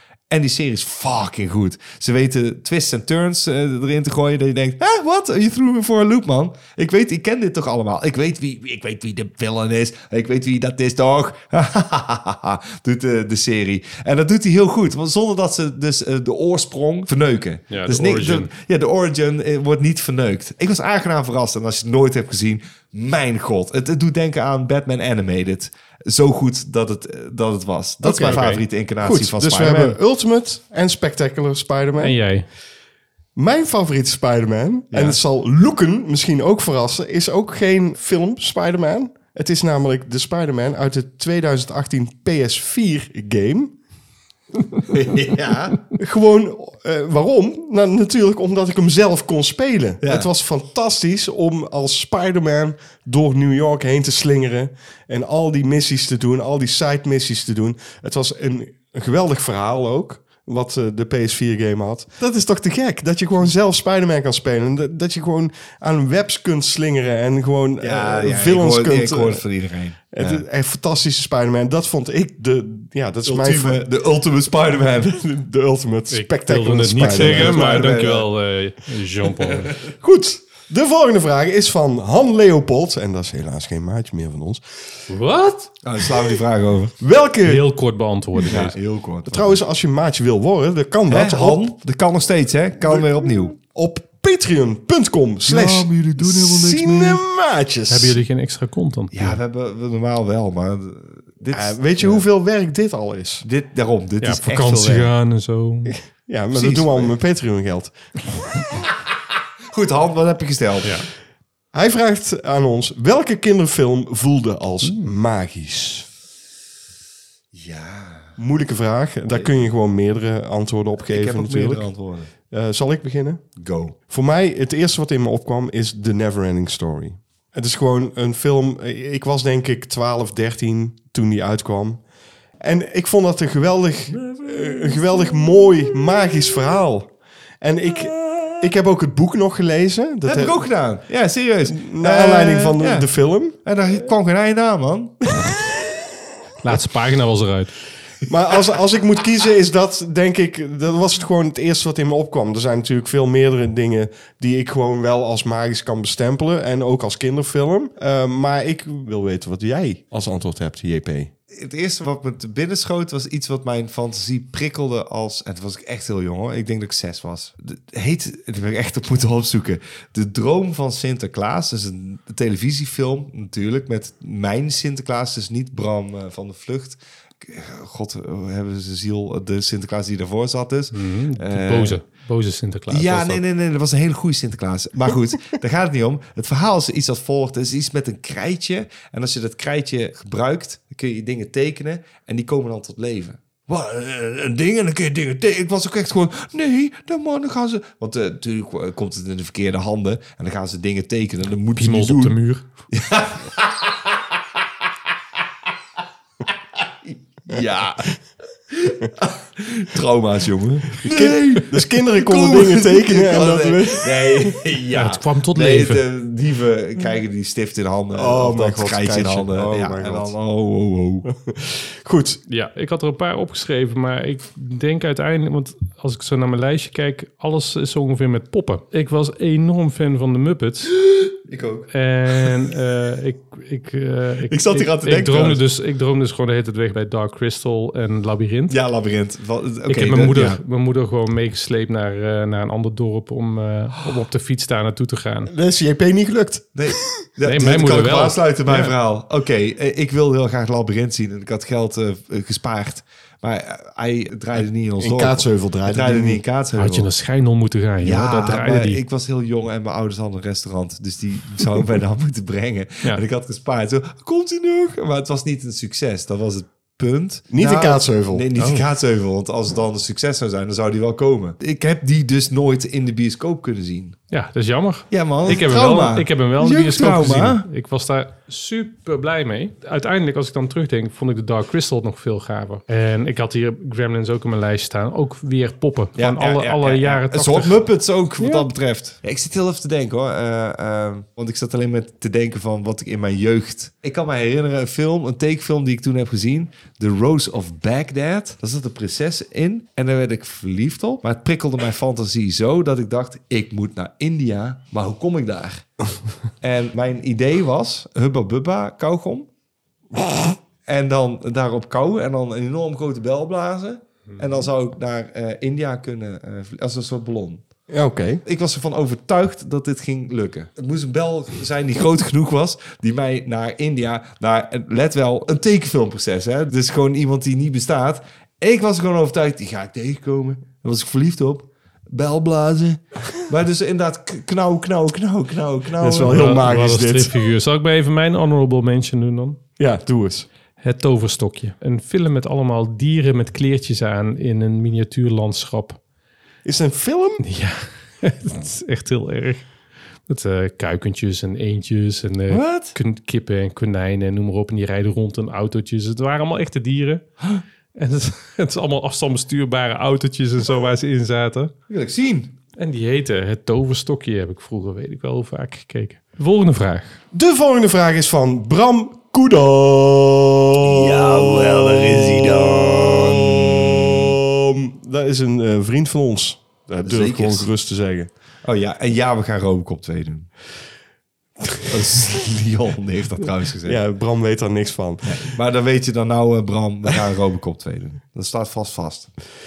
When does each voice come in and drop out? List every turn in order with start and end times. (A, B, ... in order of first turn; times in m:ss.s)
0:00.3-0:30.0 A
0:17.7-0:18.5 B
0:28.0-0:28.4 C
0:28.2-0:28.6 B
0:29.0-0:32.2 C
0:32.0-0:32.5 B
0:33.4-0:43.8 C
0:34.9-0:35.2 A
0:44.9-0:45.8 A
0:46.0-1:09.4 C
0:50.0-0:50.3 A
1:07.8-1:10.4 A
1:10.1-1:13.9 C
1:13.2-1:15.2 A
1:15.2-1:17.8 C
1:16.1-1:19.8 B
1:17.0-1:18.3 A
1:20.0-1:24.6 C
1:25.1-1:25.7 B
1:25.8-1:27.0 A
1:27.0-1:27.6 C
1:27.4-1:28.8 B
1:28.4-1:29.6 A
1:29.3-1:31.7 C
1:31.1-1:33.5 A
1:32.9-1:38.2 C
1:35.4-1:37.2 A
1:37.9-1:39.4 B
1:39.1-1:42.3 A
1:41.5-1:43.4 C
1:43.4-1:45.1 A
1:44.2-1:45.9 B
1:45.9-1:48.0 C
1:46.5-1:47.1 A
1:49.7-1:51.0 A
1:51.7-1:56.1 C
1:54.8-1:55.1 B
1:57.5-1:58.4 A
1:58.4-2:01.9 C
2:01.1-2:02.3 A
2:02.5-2:03.4 C
2:03.6-2:04.0 A
2:04.1-2:12.0 C
2:12.6-2:20.6 C
2:14.1-2:16.8 A
2:17.9-2:18.7 A
2:20.2-2:23.1 A
2:21.7-2:23.6 C
2:23.6-2:25.2 A
2:26.6-2:27.8 B
2:28.3-2:41.3 C
2:41.5-3:02.0 A
3:00.9-3:03.4 B
3:02.9-3:22.4 A
3:21.8-3:22.6 B
3:22.9-3:25.7 A
3:26.5-3:28.2 A
3:28.7-3:41.3 A
3:31.0-3:34.6 C
3:34.9-3:36.0 B
3:38.1-3:40.3 C
3:41.2-3:42.4 C
3:42.5-3:51.0 B
3:51.4-3:52.6 A
3:51.9-3:58.8 B
3:54.5-3:55.6 A
3:58.7-4:00.6 A
3:59.9-4:05.5 B
4:05.5-4:07.2 C
4:06.8-4:17.1 A
4:07.4-4:08.9 B
4:15.0-4:16.4 C
4:16.8-4:19.0 B
4:18.0-4:34.2 A
4:27.5-4:28.5 C
4:28.6-4:28.8 B
4:34.3-4:47.8 B
4:35.1-4:37.7 A
4:46.2-5:05.9 A
4:48.4-4:48.7 B
5:06.6-5:09.5 A
5:10.9-5:17.6 A
5:17.9-5:18.4 C
5:18.4-5:36.7 A
5:36.0-5:37.3 C
5:36.3-5:39.6 B
5:39.8-5:40.5 C
5:40.8-5:46.0 B
5:46.6-5:47.4 C
5:47.4-5:49.7 B
5:50.3-5:57.2 B
5:52.5-5:53.0 A
5:58.0-6:01.7 B
6:01.9-6:02.5 A
6:02.8-6:07.2 B
6:07.3-6:18.3 C
6:10.8-6:14.3 A
6:17.0-6:17.7 A
6:18.6-6:20.5 A
6:21.8-6:24.0 A
6:23.8-6:25.4 C
6:25.2-6:29.3 A